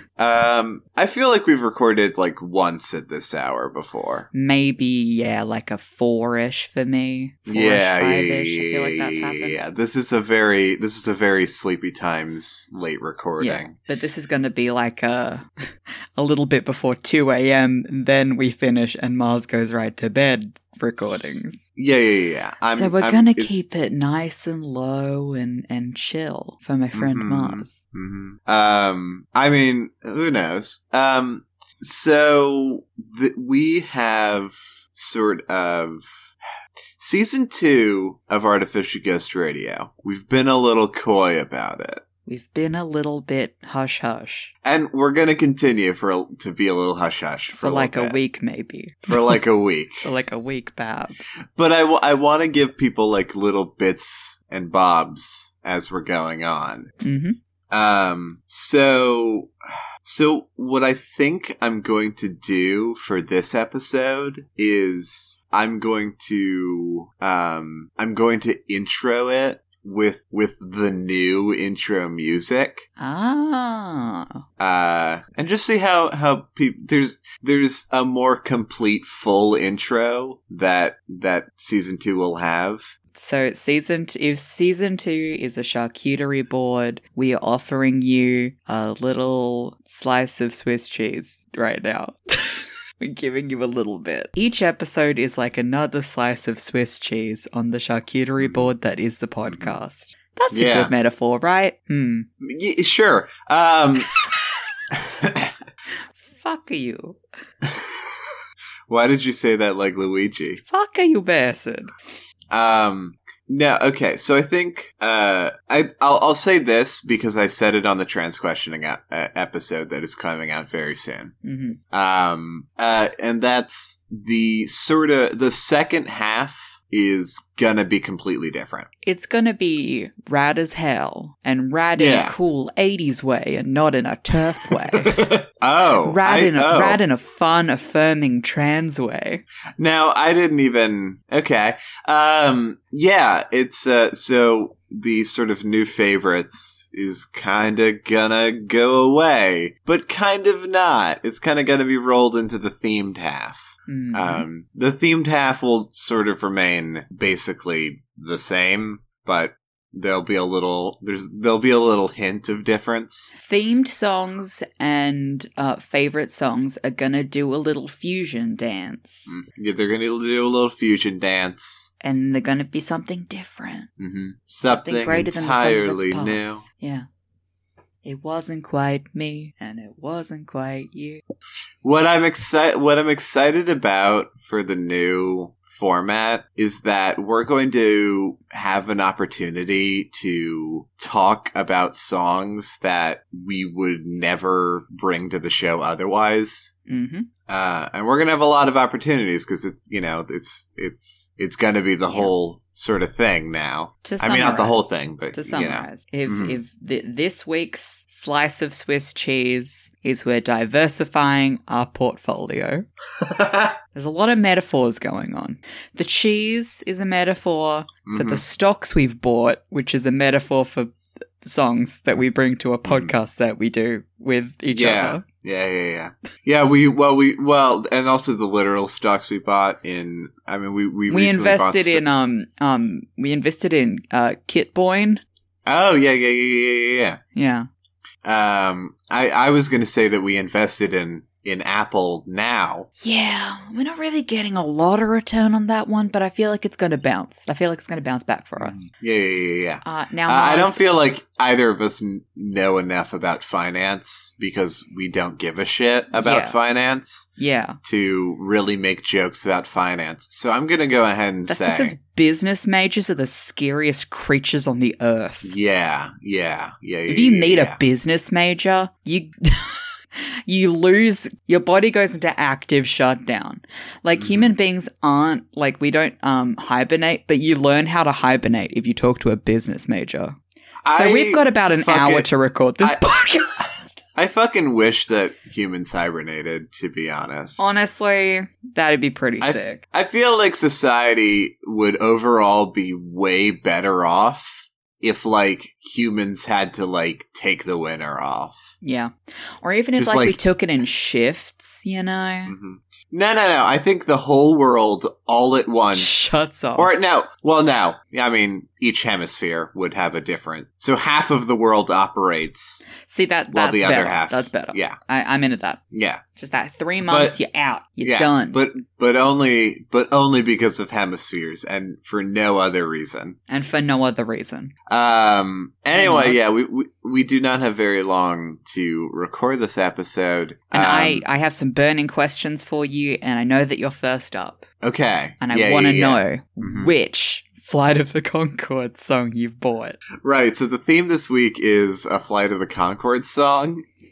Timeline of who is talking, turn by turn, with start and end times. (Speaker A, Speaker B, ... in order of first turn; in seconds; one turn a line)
Speaker A: 0.2-4.3
Speaker B: 4.3-9.6
Speaker A: 7.5-13.8
Speaker B: 13.4-21.6
Speaker A: 21.8-23.6
Speaker B: 22.7-27.8
Speaker A: 26.9-36.3
Speaker A: 37.0-42.0
Speaker B: 42.3-44.5
Speaker A: 44.6-48.2
Speaker B: 47.5-49.1
Speaker A: 49.1-50.1
Speaker B: 50.0-51.4
Speaker A: 51.5-56.9
Speaker B: 57.0-57.4
Speaker A: 57.7-59.5
Speaker A: 60.0-72.9
Speaker B: 73.0-74.5
Speaker A: 74.6-82.9
Speaker B: 83.1-102.3
Speaker A: 98.4-98.7
Speaker A: 99.5-99.7
Speaker A: 100.5-100.9
Speaker A: 102.4-104.1
Speaker A: 104.9-105.5
Speaker B: 106.2-107.2
Speaker A: 107.6-108.2
Speaker A: 108.9-110.6
Speaker B: 110.6-111.9
Speaker A: 112.5-121.3
Speaker B: 121.4-121.8
Speaker A: 121.9-128.9
Speaker B: 129.0-135.3
Speaker A: 132.0-132.4
Speaker A: 134.6-137.0
Speaker B: 136.0-139.4
Speaker A: 139.8-163.3
Speaker B: 153.9-154.5
Speaker B: 163.4-169.4
Speaker A: 169.3-171.9
Speaker B: 172.0-173.9
Speaker A: 174.0-176.7
Speaker B: 174.7-177.1
Speaker B: 178.0-181.2
Speaker A: 181.8-196.7
Speaker B: 196.9-197.3
Speaker A: 197.5-206.6
Speaker B: 202.1-202.3
Speaker B: 204.0-212.9
Speaker A: 213.2-213.8
Speaker B: 213.9-225.2
Speaker A: 218.1-218.4
Speaker A: 222.9-223.1
Speaker A: 224.7-232.1
Speaker B: 231.1-235.2
Speaker A: 235.7-237.2
Speaker B: 237.3-237.7
Speaker A: 238.2-242.9
Speaker B: 243.0-248.9
Speaker A: 248.6-257.3
Speaker B: 249.8-250.8
Speaker B: 256.1-256.6
Speaker B: 257.4-257.8
Speaker A: 257.8-262.0
Speaker B: 261.5-265.6
Speaker A: 265.4-267.8
Speaker B: 267.1-283.7
Speaker A: 274.2-274.5
Speaker A: 280.8-282.3
Speaker A: 283.6-287.6
Speaker B: 287.6-289.8
Speaker A: 289.4-298.7
Speaker B: 298.8-302.5
Speaker A: 300.0-300.4
Speaker A: 302.5-312.9
Speaker B: 305.9-307.0
Speaker B: 313.0-315.8
Speaker A: 313.5-315.0
Speaker A: 315.9-316.2
Speaker B: 316.4-318.6
Speaker A: 317.1-317.4
Speaker A: 318.0-323.4
Speaker B: 323.5-324.7
Speaker A: 324.9-331.2
Speaker B: 325.9-326.5
Speaker B: 330.7-334.7
Speaker A: 334.8-336.9
Speaker B: 335.4-340.0
Speaker A: 340.2-343.8